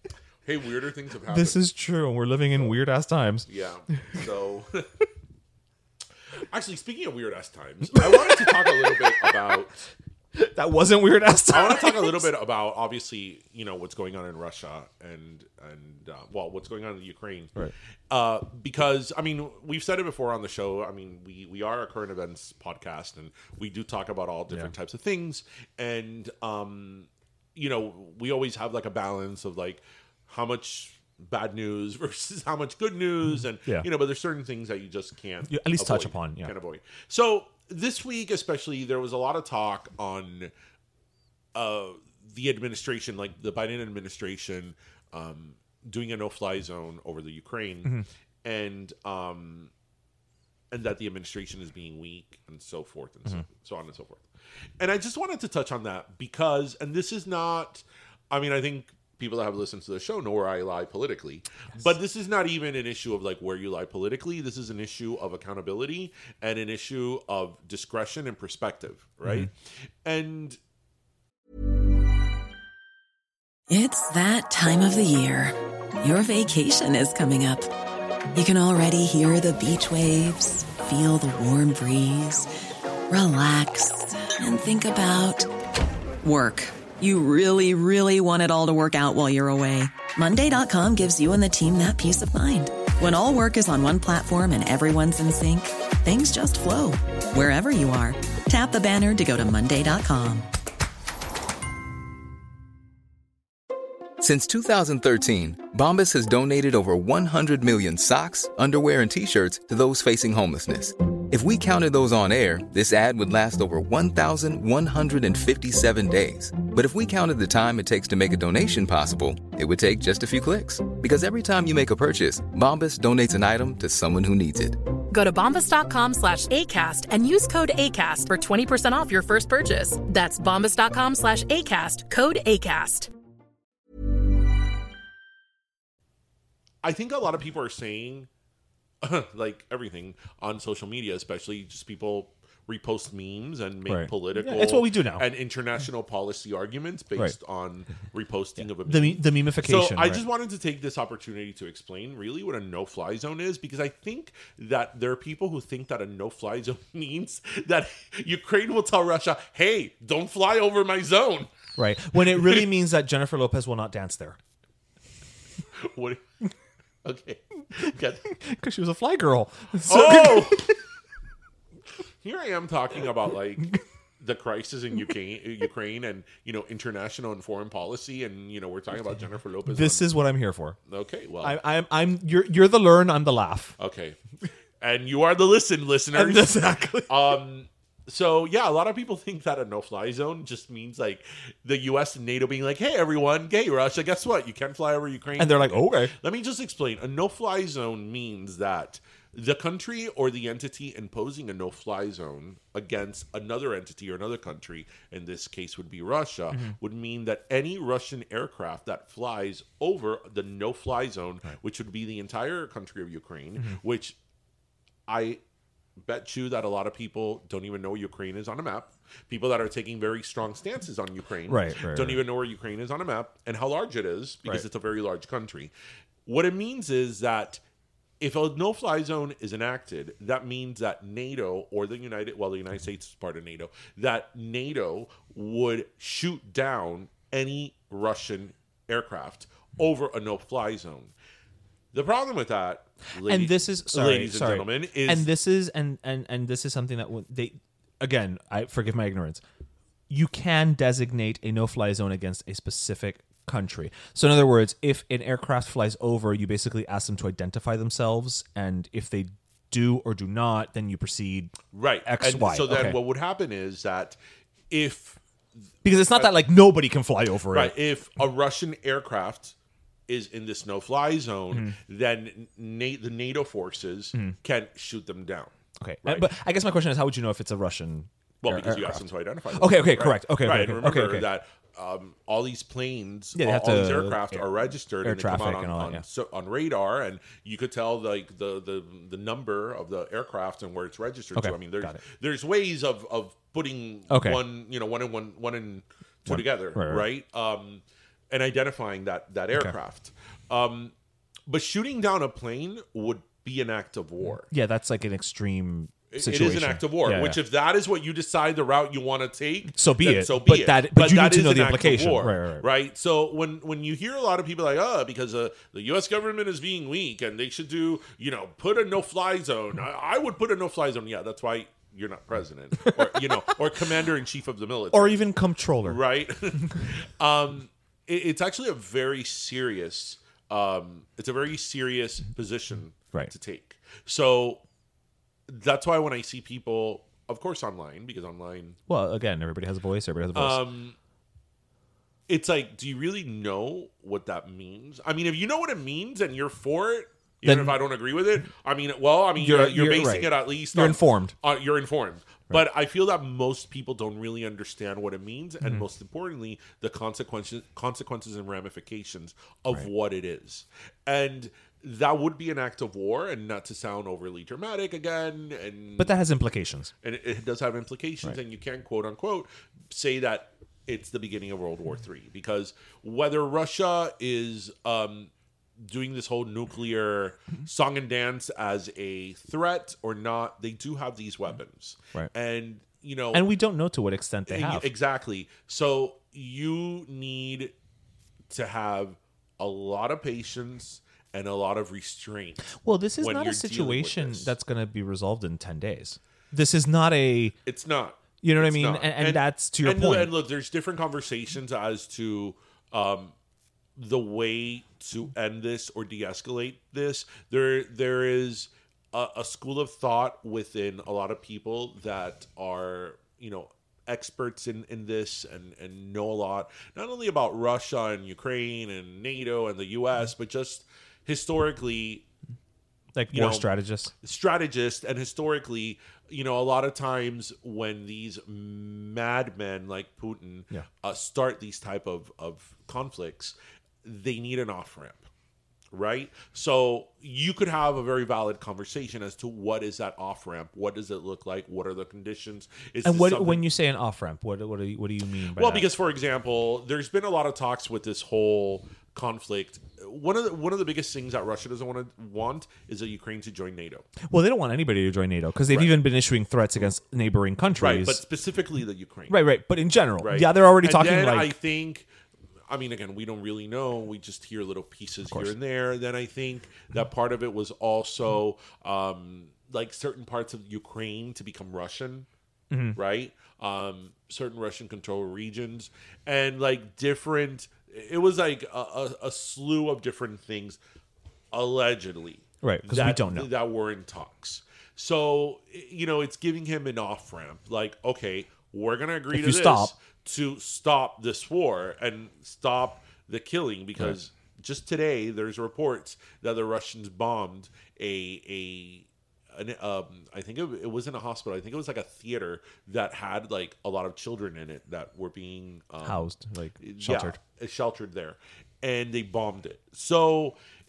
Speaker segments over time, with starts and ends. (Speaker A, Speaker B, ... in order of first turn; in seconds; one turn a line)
Speaker A: 0.4-1.6
Speaker B: 1.3-4.2
Speaker A: 3.5-4.9
Speaker A: 6.5-9.7
Speaker B: 7.9-9.3
Speaker B: 10.3-12.3
Speaker A: 11.5-17.5
Speaker A: 18.1-40.5
Speaker B: 33.3-33.9
Speaker B: 35.5-36.5
Speaker A: 41.5-49.7
Speaker A: 50.7-54.2
Speaker A: 54.8-69.5
Speaker B: 69.2-69.5
Speaker A: 70.0-70.6
Speaker C: 73.7-77.7
Speaker C: 78.3-82.5
Speaker C: 83.1-85.5
Speaker C: 86.2-100.5
Speaker D: 104.2-124.8
Speaker E: 125.1-133.1
Speaker A: 136.8-138.3
Speaker A: 139.0-161.5
Speaker B: 143.8-145.2
Speaker B: 148.8-150.2
Speaker B: 161.8-164.4
Speaker A: 162.3-162.7
Speaker A: 165.8-166.2
Speaker A: 167.0-168.2
Speaker B: 168.2-170.8
Speaker A: 169.9-170.7
Speaker A: 172.2-180.1
Speaker B: 179.7-180.8
Speaker A: 180.8-181.6
Speaker B: 181.4-183.8
Speaker A: 183.8-184.2
Speaker A: 184.8-214.2
Speaker B: 186.1-187.3
Speaker B: 195.4-196.1
Speaker A: 215.1-215.4
Speaker A: 216.0-225.7
Speaker B: 221.5-222.2
Speaker A: 226.2-227.6
Speaker A: 228.2-241.1
Speaker A: 241.9-245.3
Speaker B: 243.2-249.4
Speaker B: 250.1-263.0
Speaker A: 261.7-264.2
Speaker A: 264.7-265.2
Speaker B: 265.8-267.7
Speaker A: 266.1-266.4
Speaker A: 267.5-269.5
Speaker A: 270.1-275.5
Speaker B: 271.5-271.8
Speaker B: 275.8-279.0
Speaker A: 276.0-276.3
Speaker A: 278.4-300.9
Speaker B: 279.6-281.3
Speaker B: 283.3-284.5
Speaker B: 285.0-286.0
Speaker B: 291.4-292.0
Speaker B: 294.1-294.4
Speaker B: 296.2-297.1
Speaker A: 301.5-304.5
Speaker B: 304.4-307.4
Speaker A: 306.1-325.3
Speaker B: 309.7-312.7
Speaker B: 322.8-323.6
Speaker B: 324.9-326.0
Speaker A: 325.8-334.6
Speaker A: 335.5-338.8
Speaker B: 338.9-340.6
Speaker A: 340.3-340.9
Speaker A: 342.3-366.1
Speaker B: 347.4-347.8
Speaker B: 349.4-351.3
Speaker B: 366.0-366.9
Speaker A: 367.0-383.4
Speaker B: 383.3-384.9
Speaker A: 384.5-387.7
Speaker A: 388.5-394.5
Speaker B: 392.7-397.6
Speaker A: 397.6-403.3
Speaker B: 398.4-400.3
Speaker A: 403.9-422.2
Speaker B: 423.1-424.1
Speaker A: 423.3-435.2
Speaker A: 435.9-443.7
Speaker B: 443.0-445.9
Speaker A: 445.6-454.1
Speaker B: 454.3-458.2
Speaker A: 455.7-456.0
Speaker A: 457.8-459.4
Speaker B: 459.3-461.5
Speaker A: 460.2-462.1
Speaker A: 462.7-472.3
Speaker B: 472.7-473.0
Speaker A: 472.9-480.8
Speaker A: 481.5-506.2
Speaker B: 482.6-483.5
Speaker B: 489.3-489.9
Speaker B: 506.0-507.4
Speaker A: 506.8-510.6